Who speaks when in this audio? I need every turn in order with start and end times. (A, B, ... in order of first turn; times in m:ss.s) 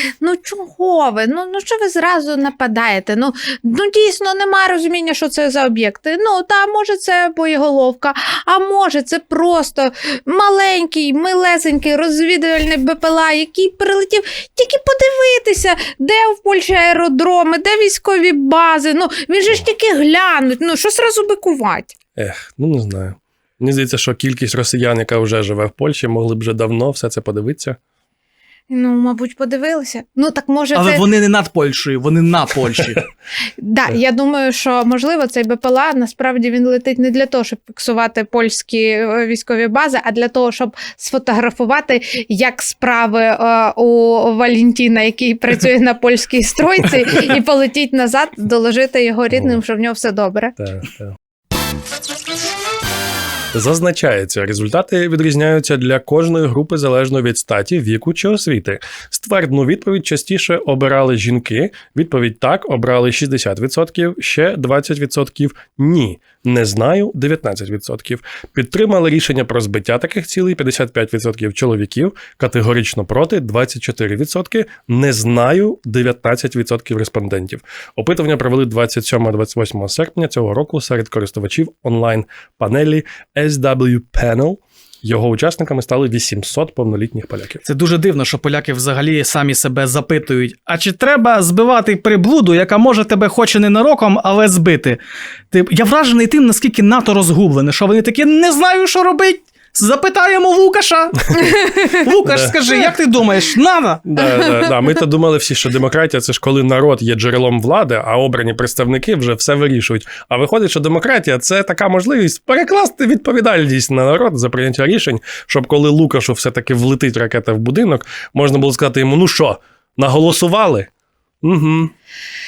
0:00.2-0:21.9 A
0:22.2-0:27.8 B
0:28.7-0:31.1 A
0:30.7-0:33.0 C
0:33.6-0:50.6 A
0:50.6-0:51.1 B
0:53.5-1:27.6 B
1:27.6-1:35.0 C
1:35.5-1:44.1 C
1:41.4-1:41.9 A
1:42.3-1:42.5 B
1:44.1-2:00.9 B
1:44.4-1:44.7 A
2:01.4-2:01.9 B